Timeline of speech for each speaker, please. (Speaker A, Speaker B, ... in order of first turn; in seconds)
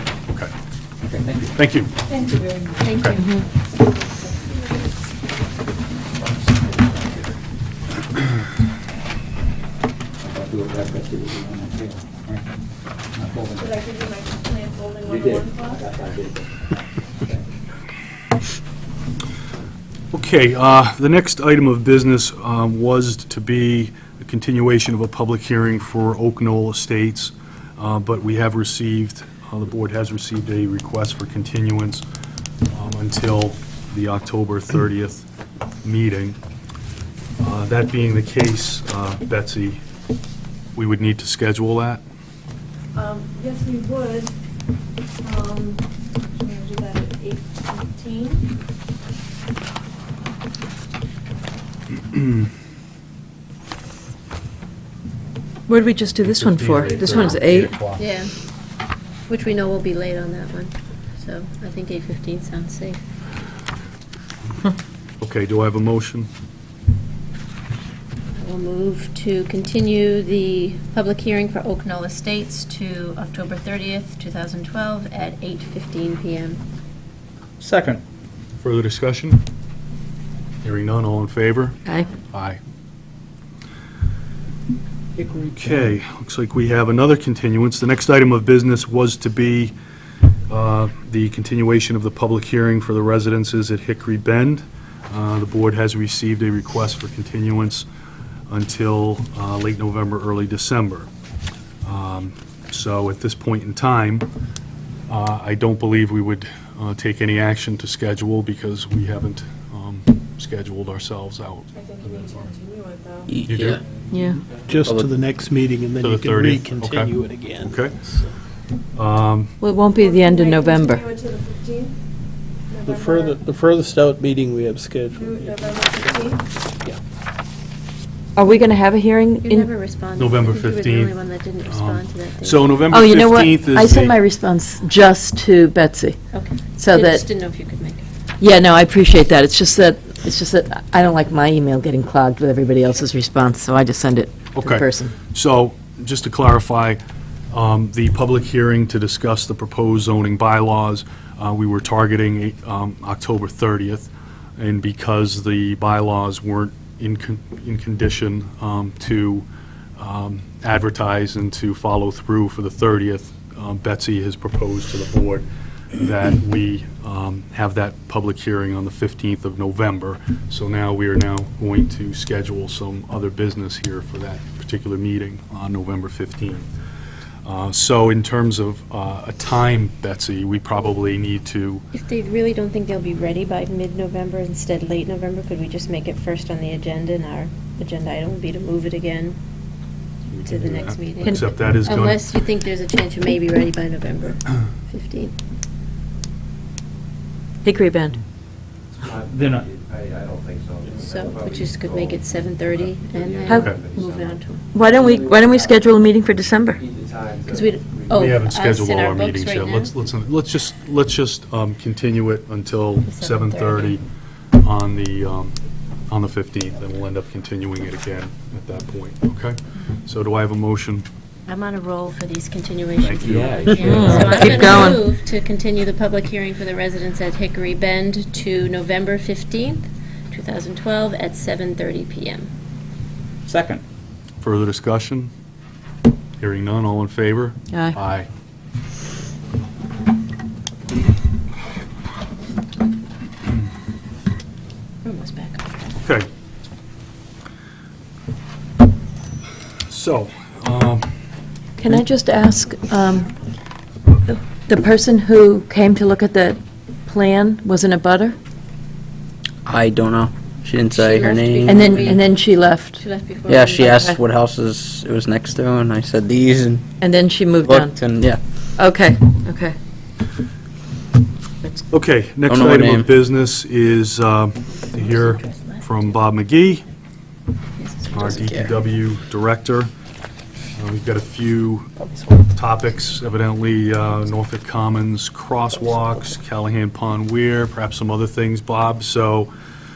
Speaker A: 1.0-1.5, 10.2-12.4, 13.1-13.8, 15.1-16.5, 77.6-78.0, 199.3-199.7, 223.2-224.3, 233.5-233.8
Speaker B: 1.5-1.9, 3.0-3.2, 20.1-32.0, 32.7-35.2, 35.8-36.4, 37.4-39.8, 40.7-42.0, 56.2-58.0, 65.2-66.3, 78.6-79.4, 80.6-81.8, 82.3-82.6, 85.2-89.7, 90.5-97.8, 98.5-101.1, 101.8-104.3, 105.1-111.7, 113.4-113.8, 116.0-118.0, 118.9-119.5, 130.2-134.2, 144.5-147.0, 147.5-159.4, 160.0-176.7, 177.4-181.8, 190.3-192.3, 203.5-203.8, 208.1-214.0, 214.6-215.5, 216.1-221.1, 223.0-223.9, 234.4-235.3, 236.4-238.3, 246.0-246.3, 249.9-251.1, 271.9-276.9, 278.1-279.9, 280.8-281.9, 282.5-289.5
Speaker C: 2.1-2.9, 13.6-15.9, 43.0-44.3, 45.3-45.8, 46.4-48.4, 111.7-113.3, 119.9-122.0, 122.7-123.4, 125.1-126.4
Speaker D: 2.8-3.4, 57.8-58.3, 59.3-63.0, 68.4-76.6, 129.4-132.8, 136.3-138.1, 181.9-189.4, 190.4-195.3, 200.9-204.7, 207.5-209.9, 213.0-214.0, 221.5-232.5, 245.0-245.9, 260.9-263.9, 274.9-276.2, 277.8-278.8
Speaker E: 3.2-3.4, 55.7-57.8, 114.1-114.4, 119.6-121.1, 128.3-129.7, 132.9-137.2, 138.4-145.1, 191.2-191.5, 197.6-198.2, 204.7-206.8, 223.8-225.0, 237.7-238.0, 251.8-253.3, 254.6-258.4, 261.6-263.0, 263.8-264.2, 267.0-268.0, 268.8-269.8
Speaker F: 113.3-113.8, 223.7-224.7, 259.6-261.8, 263.5-266.8, 267.6-268.4, 272.4-273.1
Speaker G: 114.6-118.3, 122.8-125.8
Speaker H: 199.0-206.0, 206.8-208.3